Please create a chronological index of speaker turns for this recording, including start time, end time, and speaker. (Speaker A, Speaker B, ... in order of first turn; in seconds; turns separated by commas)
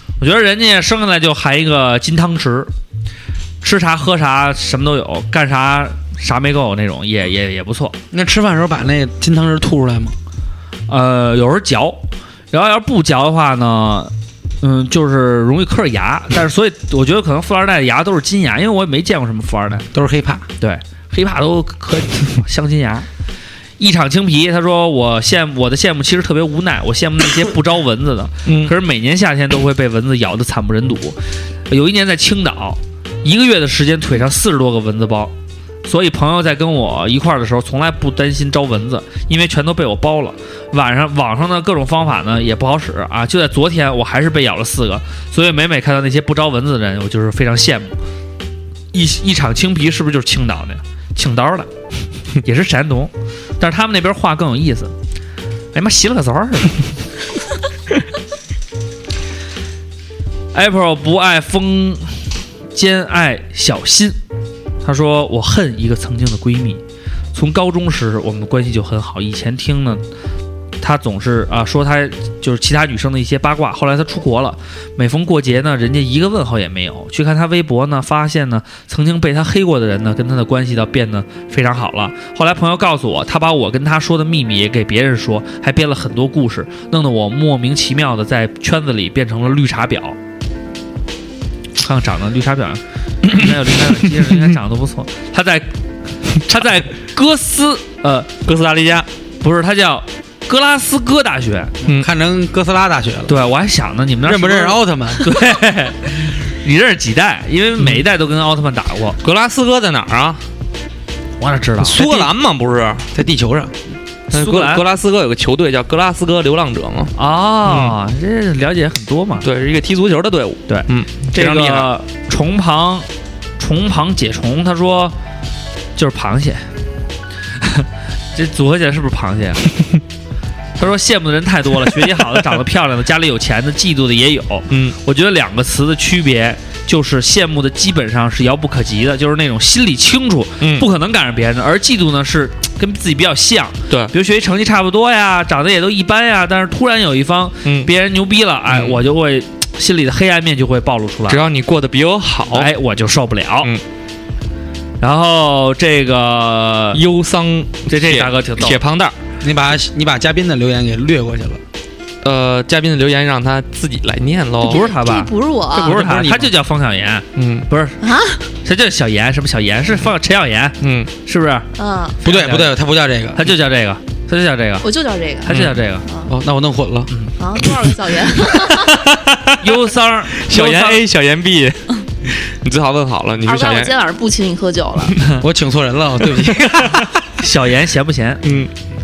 Speaker A: 0.2-2.7, Speaker A: 3.6-8.0, Speaker B: 8.1-10.1, Speaker A: 10.9-12.0, Speaker A: 12.5-19.9, Speaker B: 19.9-20.4, Speaker A: 20.6-23.1, Speaker A: 23.8-35.3, Speaker C: 28.4-28.7, Speaker A: 35.8-48.0, Speaker A: 48.9-51.7, Speaker A: 52.4-54.9, Speaker A: 55.7-56.8, Speaker A: 60.5-64.2, Speaker A: 64.8-66.8, Speaker A: 67.3-70.0, Speaker A: 70.8-90.2, Speaker A: 91.8-95.7, Speaker A: 96.3-98.3, Speaker C: 98.4-99.1, Speaker A: 99.4-101.7, Speaker B: 101.8-103.3, Speaker A: 103.3-109.2, Speaker B: 104.2-105.3, Speaker C: 109.2-110.4, Speaker A: 111.4-112.3, Speaker C: 111.8-113.1, Speaker B: 113.1-113.8, Speaker A: 114.3-114.8, Speaker C: 114.3-117.1, Speaker A: 117.1-119.5, Speaker C: 117.7-118.0, Speaker C: 119.4-121.9, Speaker A: 120.7-123.1, Speaker A: 123.6-125.1, Speaker A: 126.0-126.6, Speaker A: 127.6-129.6, Speaker A: 130.8-151.4, Speaker C: 134.7-134.9, Speaker C: 140.6-140.9, Speaker C: 147.6-147.9, Speaker C: 148.7-149.0, Speaker C: 151.3-152.7, Speaker A: 152.5-153.7, Speaker A: 155.0-157.0, Speaker C: 156.9-159.1, Speaker A: 157.9-158.8, Speaker B: 159.4-161.6, Speaker C: 162.2-164.8, Speaker A: 164.6-168.0, Speaker D: 164.6-165.9, Speaker B: 165.7-166.5, Speaker C: 167.3-167.7, Speaker D: 168.0-168.4, Speaker A: 168.6-171.7, Speaker C: 170.8-171.1, Speaker D: 171.8-172.2, Speaker B: 172.2-173.4, Speaker A: 172.2-172.7, Speaker A: 173.3-174.8, Speaker D: 174.8-175.5, Speaker A: 175.4-176.1, Speaker C: 175.5-175.7, Speaker D: 176.0-176.3, Speaker B: 176.3-177.1, Speaker D: 177.4-179.1, Speaker C: 179.1-179.7, Speaker A: 179.5-181.0, Speaker C: 180.4-184.0, Speaker D: 183.4-185.2, Speaker B: 185.4-187.1, Speaker C: 186.3-186.7, Speaker A: 187.3-188.4, Speaker C: 188.4-188.7